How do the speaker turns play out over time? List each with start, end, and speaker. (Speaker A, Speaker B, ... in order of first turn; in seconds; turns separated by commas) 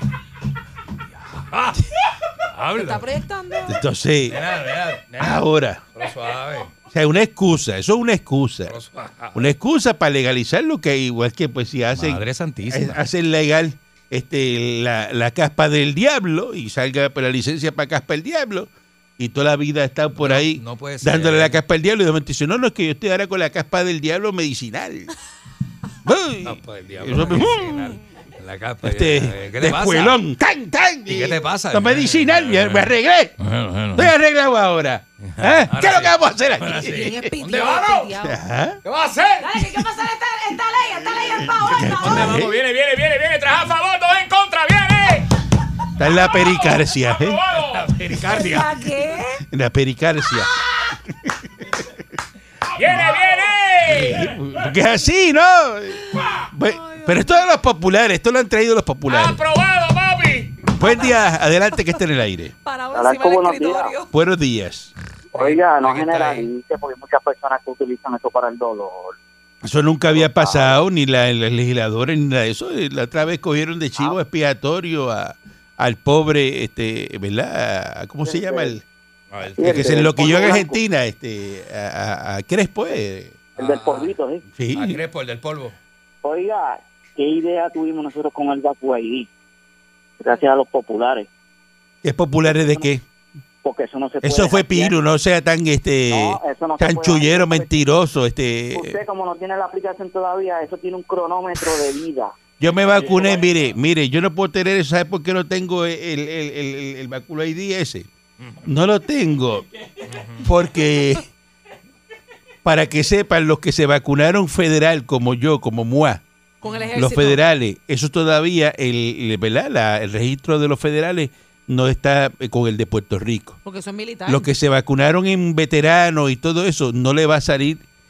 Speaker A: 1.5-1.8, Speaker A: 2.4-3.0, Speaker B: 2.8-3.8, Speaker C: 3.6-4.4, Speaker A: 4.3-6.7, Speaker C: 5.2-5.8, Speaker C: 6.9-8.7, Speaker A: 8.7-9.5, Speaker C: 9.3-25.1, Speaker A: 11.9-13.0, Speaker A: 20.2-21.6, Speaker C: 26.0-28.0, Speaker A: 26.4-30.2, Speaker C: 28.8-33.4, Speaker A: 31.1-34.1, Speaker C: 33.9-37.2, Speaker A: 35.2-38.1, Speaker B: 36.8-38.4, Speaker C: 38.2-38.8, Speaker A: 38.8-39.5, Speaker B: 39.4-42.4, Speaker C: 41.4-42.6, Speaker A: 42.0-45.3, Speaker C: 46.0-47.4, Speaker A: 47.5-48.7, Speaker B: 48.1-49.4, Speaker C: 49.5-50.5, Speaker C: 51.2-51.8, Speaker A: 52.8-54.2, Speaker C: 52.8-53.2, Speaker C: 53.8-59.4, Speaker B: 56.6-57.5, Speaker A: 59.2-60.5, Speaker C: 60.7-62.5, Speaker B: 60.7-61.2, Speaker B: 62.6-64.1, Speaker D: 62.9-64.0, Speaker C: 64.1-64.9, Speaker D: 65.3-69.2, Speaker A: 65.3-66.5, Speaker C: 69.6-78.8, Speaker D: 70.1-70.8, Speaker D: 78.2-78.8, Speaker A: 79.3-80.1, Speaker D: 79.6-80.7, Speaker C: 79.6-83.4, Speaker A: 83.6-84.1, Speaker D: 83.6-84.4, Speaker C: 84.5-85.0, Speaker A: 84.7-85.8, Speaker D: 86.2-89.3, Speaker D: 90.2-91.3, Speaker C: 92.0-93.0, Speaker D: 92.4-92.9, Speaker D: 93.6-95.0, Speaker C: 94.2-99.0, Speaker D: 96.1-97.7, Speaker D: 98.7-102.3, Speaker C: 102.6-108.1, Speaker A: 103.0-103.2, Speaker A: 108.4-108.6, Speaker C: 108.6-109.7, Speaker A: 110.0-110.5, Speaker C: 110.4-111.3, Speaker C: 112.6-116.2, Speaker B: 116.6-117.4, Speaker A: 116.6-116.9, Speaker C: 116.9-123.6, Speaker B: 123.6-124.5, Speaker C: 124.2-127.8